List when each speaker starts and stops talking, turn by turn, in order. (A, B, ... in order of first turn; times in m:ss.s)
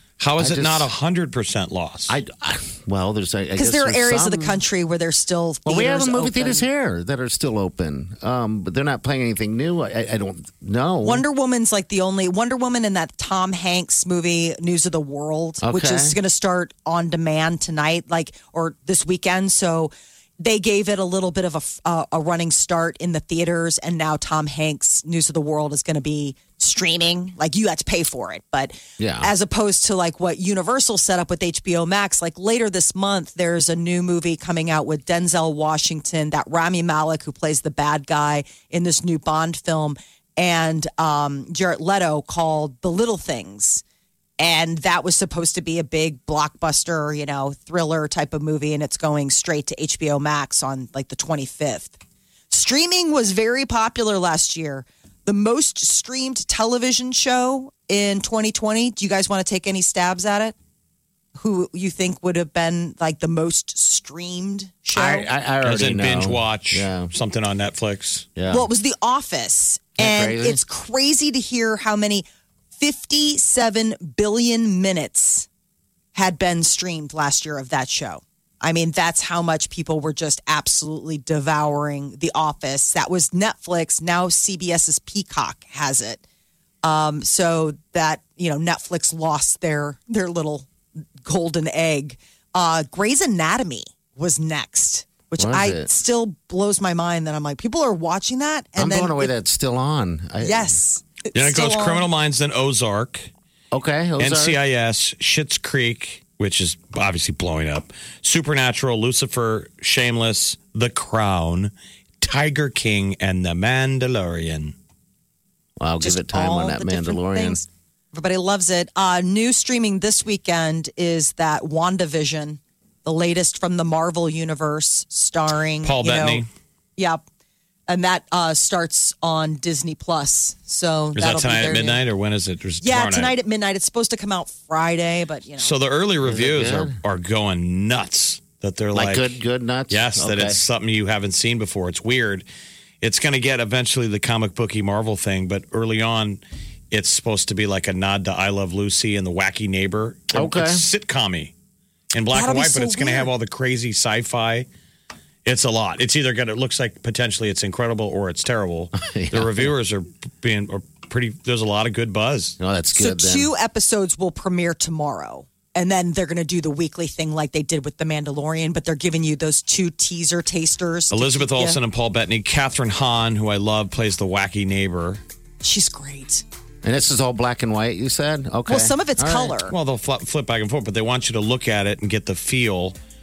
0:00.2-0:02.2 A
0:00.4-0:00.9 B
0:02.1-0:04.6 B
0:03.6-0:06.6 C
0:05.6-0:11.2 B
0:11.0-0:43.8 C
0:15.6-0:16.2 B
0:29.0-0:29.3 B
0:44.4-0:52.0 C
0:52.5-1:00.5 C
1:01.4-1:05.3 C
1:04.9-1:07.1 B
1:05.6-1:08.3 A
1:08.4-1:08.7 B
1:08.5-1:12.2 C
1:10.0-1:10.6 B
1:12.8-1:15.5 C
1:16.1-1:26.2 C
1:26.8-1:30.7 C
1:31.2-1:39.3 C
1:35.4-1:35.9 B
1:38.8-1:40.8 B
1:40.4-1:42.0 C
1:41.3-1:43.3 A
1:43.7-1:44.6 B
1:44.2-1:54.7 A
1:55.8-1:57.6 B
1:56.0-2:06.4 C
2:05.8-2:06.5 A
2:07.0-2:07.2 C
2:07.9-2:12.0 C
2:11.1-2:13.3 A
2:12.8-2:15.7 C
2:15.6-2:19.4 A
2:16.2-2:17.0 B
2:18.9-2:20.6 B
2:19.9-2:22.4 A
2:23.0-2:31.5 A
2:30.3-2:30.8 B
2:32.1-2:34.7 A
2:32.3-2:33.3 C
2:35.4-2:42.6 A
2:39.0-2:39.7 B
2:42.6-2:43.5 B
2:42.9-2:51.8 C
2:51.1-2:55.2 A
2:55.6-2:56.4 C
2:56.8-2:59.6 B
2:58.7-2:59.7 C
2:59.7-3:03.0 A